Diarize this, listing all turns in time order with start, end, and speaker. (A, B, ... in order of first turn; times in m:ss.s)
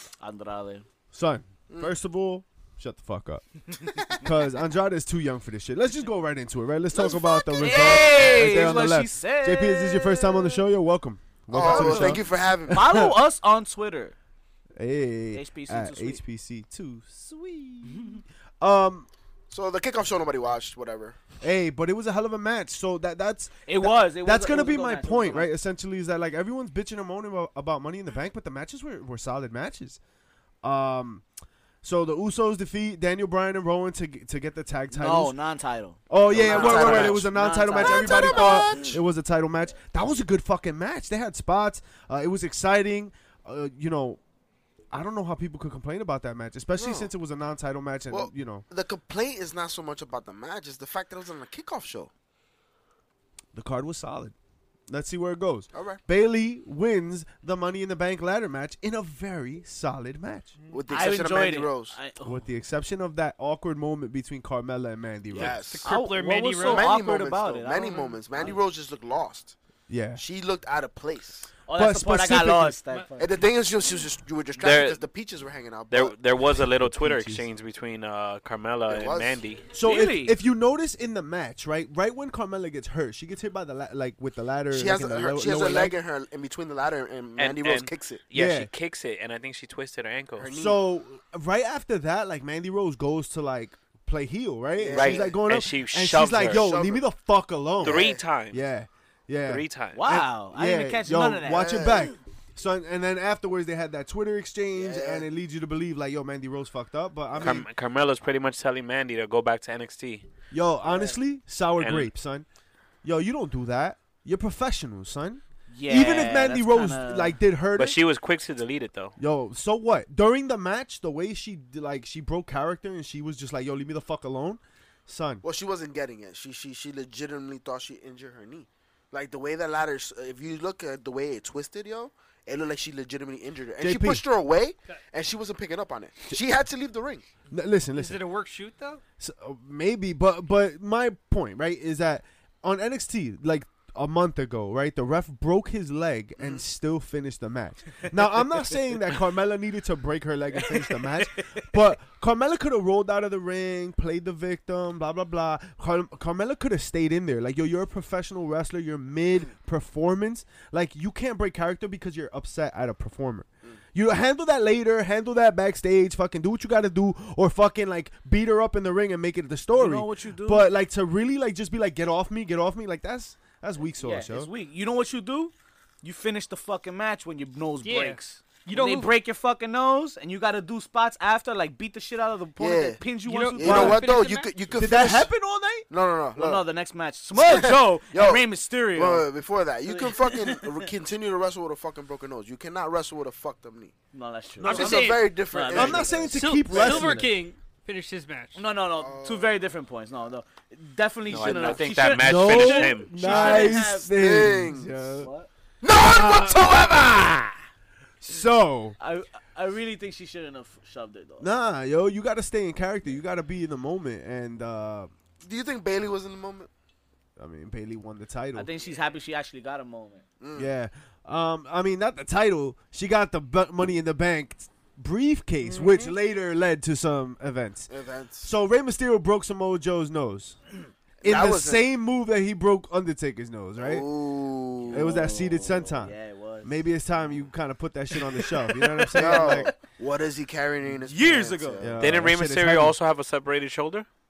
0:00.2-0:00.9 A
0:01.1-0:13.1 B
0:01.7-0:01.9 C
0:03.9-0:04.2 C
0:06.9-0:08.4 C
0:07.6-0:10.7 A
0:11.5-0:12.8 C
0:11.6-0:14.2 A
0:14.8-0:19.1 B
0:15.3-0:16.2 A
0:19.5-0:21.2 C
0:21.4-0:30.0 B
0:23.7-0:25.5 A
0:30.6-0:31.2 B
0:31.8-0:35.4 B
0:34.9-0:39.0 A
0:36.1-0:44.2 B
0:36.3-0:37.2 C
0:36.4-0:37.2 D
0:37.8-0:39.0 C
0:44.9-0:48.7 B
0:46.8-0:47.1 C
0:48.1-0:52.1 C
0:53.5-0:54.4 B
0:54.9-1:00.5 B
0:55.7-0:56.0 C
1:00.6-1:00.9 E
1:00.7-1:01.9 C
1:00.9-1:02.5 A
1:02.2-1:05.6 B
1:05.3-1:05.9 C
1:05.4-1:06.9 E
1:05.8-1:08.6 A
1:06.6-1:09.6 C
1:07.9-1:08.2 E
1:09.9-1:10.2 B
1:10.2-1:11.5 C
1:11.6-1:13.4 A
1:11.8-1:12.8 B
1:13.2-1:16.2 C
1:14.6-1:15.0 D
1:15.9-1:19.7 D
1:16.6-1:17.4 B
1:18.9-1:19.4 C
1:19.7-1:26.0 B
1:19.8-1:20.4 A
1:24.7-1:28.2 C
1:27.4-1:30.5 D
1:28.3-1:28.7 B
1:30.4-1:30.8 C
1:30.5-1:47.7 B
1:34.8-1:35.4 C
1:34.9-1:36.7 D
1:36.3-1:37.0 C
1:37.8-1:38.2 C
1:37.8-1:38.6 D
1:39.5-1:40.0 D
1:40.0-1:42.0 A
1:41.6-1:42.1 C
1:44.7-1:45.2 C
1:47.4-1:50.3 D
1:50.5-1:52.5 B
1:50.8-1:51.2 A
1:51.8-1:52.1 D
1:53.0-1:58.0 B
1:55.7-1:57.4 A
1:57.8-1:59.2 D
1:59.2-2:05.4 B
2:05.4-2:17.2 C
2:13.8-2:14.2 B
2:17.5-2:18.3 B
2:17.9-2:19.0 E
2:19.2-2:54.5 B
2:26.4-2:26.6 C
2:30.6-2:31.7 A
2:49.7-2:50.7 A
2:53.9-3:04.0 A
2:57.8-2:59.1 E
3:02.6-3:05.3 C
3:03.2-3:04.6 E
3:03.6-3:04.0 B
3:04.7-3:05.9 B
3:05.9-3:06.7 C
3:06.4-3:09.3 A
3:07.4-3:13.9 C
3:09.9-3:10.9 A
3:14.1-3:16.3 A
3:14.6-3:15.1 B
3:14.6-3:15.4 E
3:14.7-3:17.2 C
3:15.7-3:17.3 B
3:16.3-3:18.6 E
3:18.6-3:24.1 A
3:19.0-3:19.6 C
3:21.3-3:23.2 D
3:21.4-3:21.8 C
3:22.1-3:25.3 B
3:23.3-3:24.9 C
3:25.1-3:25.5 A
3:25.8-3:27.5 C
3:25.9-3:27.3 B
3:28.2-3:29.0 B
3:29.0-3:31.5 A
3:31.4-3:35.1 B
3:35.4-3:36.7 C
3:37.4-3:38.7 B
3:38.5-3:40.2 A
3:40.4-3:40.7 C
3:40.5-3:47.9 B
3:45.6-3:46.1 C
3:47.9-3:48.5 C
3:48.4-3:50.6 B
3:51.2-3:51.8 C
3:51.2-3:54.1 B
3:53.8-3:55.1 C
3:54.9-3:56.8 A
3:54.9-3:59.7 B
3:58.4-3:59.8 A
3:59.2-4:02.0 C
4:01.0-4:01.9 A
4:01.8-4:03.0 B
4:02.0-4:04.1 D